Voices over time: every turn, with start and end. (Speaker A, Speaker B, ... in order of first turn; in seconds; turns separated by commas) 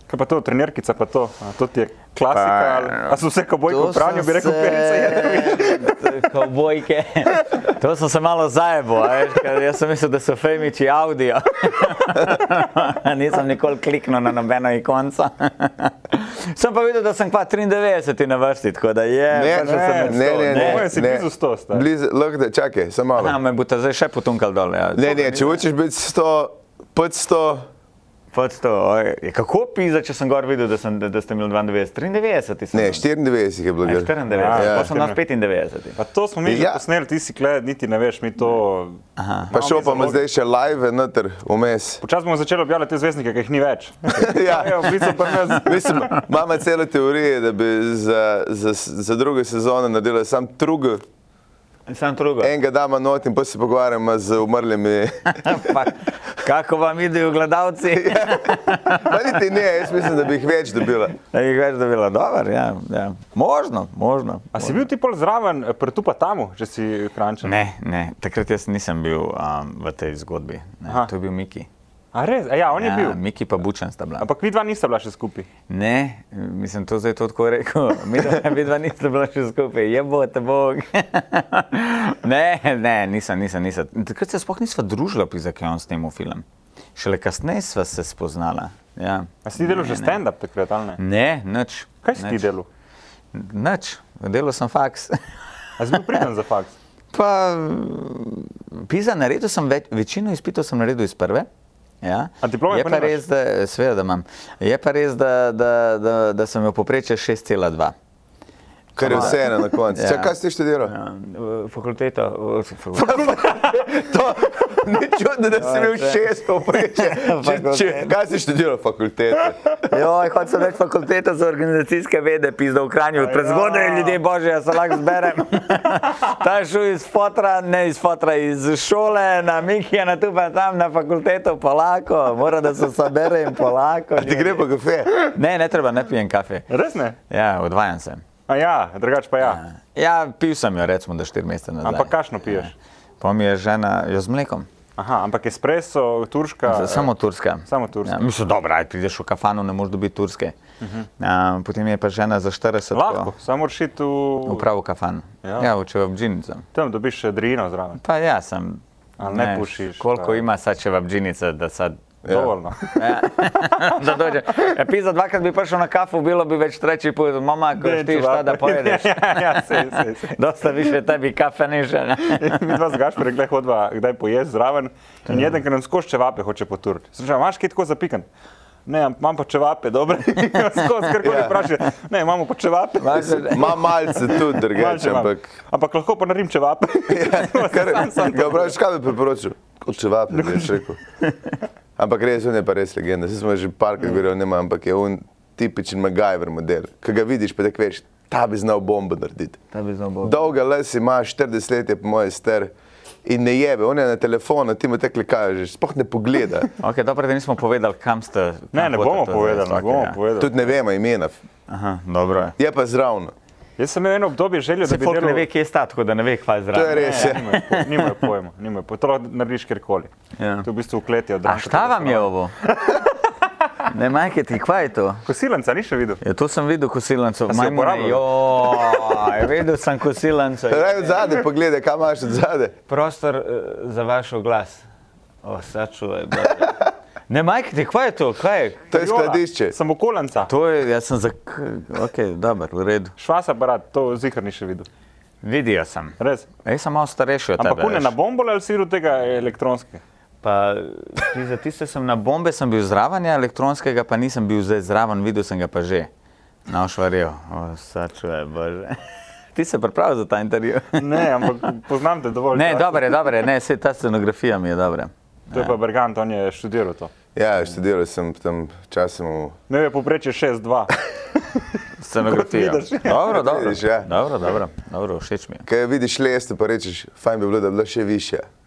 Speaker A: 0.1-6.2, Speaker B: 2.3-20.9, Speaker C: 19.3-23.3, Speaker A: 19.6-21.9, Speaker B: 23.1-25.6, Speaker C: 24.9-27.6, Speaker B: 28.3-33.0, Speaker C: 32.7-34.9, Speaker B: 33.8-36.0, Speaker A: 34.3-35.2, Speaker A: 36.0-40.2, Speaker C: 36.4-36.8, Speaker B: 39.2-39.5, Speaker C: 39.5-42.0, Speaker A: 42.0-46.1, Speaker C: 44.1-51.0, Speaker B: 51.9-52.5, Speaker C: 52.4-55.9, Speaker B: 55.3-59.2, Speaker C: 57.9-61.1, Speaker B: 61.1-64.8, Speaker A: 64.5-67.6, Speaker B: 67.4-71.7, Speaker A: 72.1-73.2, Speaker B: 72.8-74.2, Speaker A: 74.2-75.5, Speaker B: 75.7-86.4, Speaker B: 87.0-90.2, Speaker A: 89.4-91.0, Speaker B: 91.0-92.4, Speaker A: 92.0-92.7, Speaker B: 93.3-95.2, Speaker A: 95.8-96.7, Speaker B: 95.9-96.2, Speaker B: 97.1-101.5, Speaker B: 102.0-107.9, Speaker A: 102.4-103.2, Speaker B: 109.0-110.3, Speaker C: 109.0-110.9, Speaker B: 110.8-113.7, Speaker C: 113.0-119.6, Speaker B: 115.5-118.1, Speaker B: 119.8-134.6, Speaker A: 123.2-124.2, Speaker C: 134.2-135.1, Speaker B: 135.2-136.7, Speaker A: 136.7-137.2, Speaker B: 137.3-138.2, Speaker A: 138.5-139.6, Speaker B: 139.4-144.7, Speaker A: 141.8-142.7, Speaker A: 145.0-147.1, Speaker B: 146.7-150.5, Speaker A: 147.7-148.3, Speaker A: 150.8-151.1, Speaker B: 151.2-153.3, Speaker A: 152.9-154.6, Speaker B: 154.4-156.7, Speaker A: 155.4-155.7, Speaker A: 156.7-158.0, Speaker B: 158.0-162.0, Speaker A: 159.2-160.4, Speaker C: 162.2-162.5, Speaker A: 162.2-163.8, Speaker B: 162.9-169.6, Speaker A: 167.8-170.4, Speaker B: 170.3-172.7, Speaker A: 172.2-178.3, Speaker A: 178.8-183.7, Speaker C: 181.2-181.6, Speaker B: 183.0-184.2, Speaker C: 183.1-185.4, Speaker A: 184.3-188.8, Speaker C: 187.1-191.0, Speaker A: 190.3-190.8, Speaker C: 192.0-199.6, Speaker B: 199.7-200.5, Speaker C: 200.2-202.7, Speaker C: 203.2-206.7, Speaker B: 206.8-210.2, Speaker A: 208.7-210.7, Speaker C: 210.4-211.3, Speaker B: 211.7-212.6, Speaker C: 212.6-213.3, Speaker A: 213.8-215.4, Speaker B: 214.8-218.1, Speaker C: 216.7-217.6, Speaker A: 216.9-220.1, Speaker B: 220.4-220.7, Speaker A: 220.6-223.1, Speaker B: 221.4-222.5, Speaker B: 223.8-225.2, Speaker A: 225.2-226.2, Speaker B: 226.2-231.1, Speaker A: 227.5-229.1, Speaker C: 230.7-232.7, Speaker B: 232.9-234.8, Speaker B: 235.4-238.9, Speaker C: 238.9-239.7, Speaker A: 238.9-240.5, Speaker B: 240.4-243.1, Speaker A: 243.2-244.9, Speaker B: 245.4-248.1, Speaker A: 246.2-246.5, Speaker A: 247.6-250.0, Speaker B: 250.4-256.1, Speaker B: 256.7-259.0, Speaker B: 259.5-261.5, Speaker A: 260.9-263.3, Speaker B: 262.5-265.8, Speaker A: 265.5-267.1, Speaker C: 267.3-269.6, Speaker A: 269.7-271.6, Speaker B: 272.0-275.6, Speaker A: 272.2-273.2, Speaker C: 273.1-274.1, Speaker C: 275.7-278.4